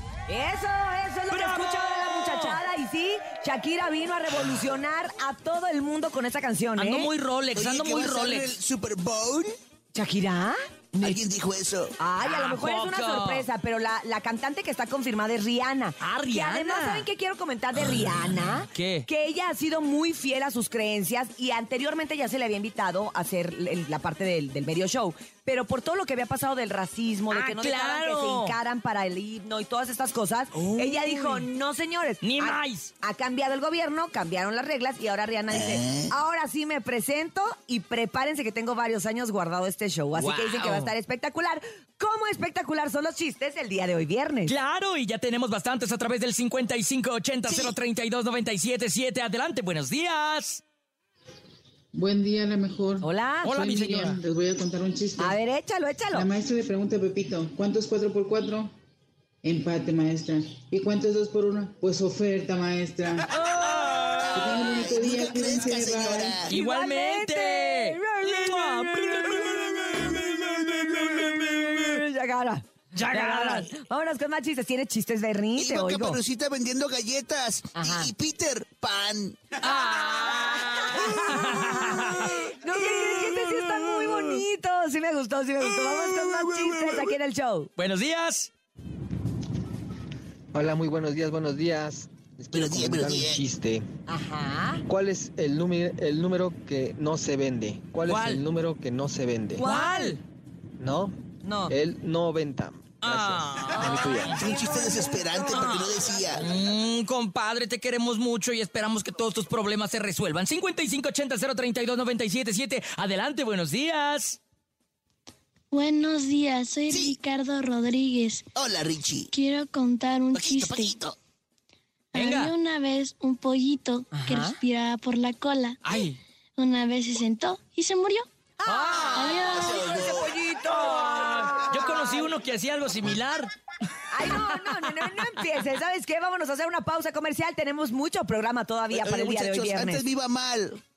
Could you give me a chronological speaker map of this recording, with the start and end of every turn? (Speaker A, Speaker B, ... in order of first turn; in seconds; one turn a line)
Speaker A: 0.3-7.1
Speaker B: 1.3-2.6
Speaker B: 6.8-8.6
Speaker C: 7.5-9.5
Speaker A: 9.9-11.2
Speaker C: 11.0-12.0
Speaker A: 12.0-44.5
Speaker B: 12.2-13.5
Speaker B: 16.0-17.1
Speaker B: 17.8-19.1
Speaker B: 27.3-28.6
Speaker B: 30.5-31.5
Speaker B: 32.2-32.9
Speaker C: 35.5-36.1
Speaker B: 40.1-40.9
Speaker B: 44.5-50.6
Speaker C: 47.5-47.8
Speaker D: 51.9-55.4
Speaker A: 53.0-53.5
Speaker B: 53.4-54.2
Speaker A: 55.2-56.3
Speaker D: 56.1-58.7
Speaker D: 59.4-63.3
Speaker B: 63.3-64.5
Speaker C: 64.2-66.5
Speaker D: 64.3-66.4
Speaker B: 66.5-72.0
Speaker A: 66.5-76.2
Speaker B: 73.0-73.7
Speaker C: 75.6-79.5
Speaker A: 77.8-78.1
Speaker B: 79.6-82.4
Speaker A: 80.7-87.7
Speaker C: 86.2-87.0
Speaker B: 87.8-88.5
Speaker E: 90.5-93.9
Speaker C: 92.5-93.4
Speaker A: 94.1-94.8
Speaker E: 94.9-99.7
Speaker B: 98.0-98.4
Speaker A: 99.5-100.2
Speaker B: 99.6-100.2
Speaker E: 100.8-101.2
Speaker A: 101.4-101.8
Speaker E: 101.7-104.4
Speaker B: 103.0-104.3
Speaker A: 103.8-105.8
Speaker C: 104.3-106.4
Speaker B: 105.5-114.4
Speaker F: 115.7-118.5
Speaker C: 116.9-117.2
Speaker C: 118.5-119.3
Speaker F: 119.3-121.0
Speaker C: 120.3-121.2
Speaker F: 122.1-125.8
Speaker B: 122.1-122.5
Speaker A: 124.1-124.6
Speaker B: 125.8-126.2
Speaker F: 126.6-128.3
Speaker A: 128.6-132.3
Speaker B: 128.7-129.4
Speaker F: 129.2-130.0
Speaker C: 129.4-130.4
Speaker B: 130.4-133.5
Speaker A: 134.1-140.1
Speaker B: 134.2-135.5
Speaker C: 138.9-140.8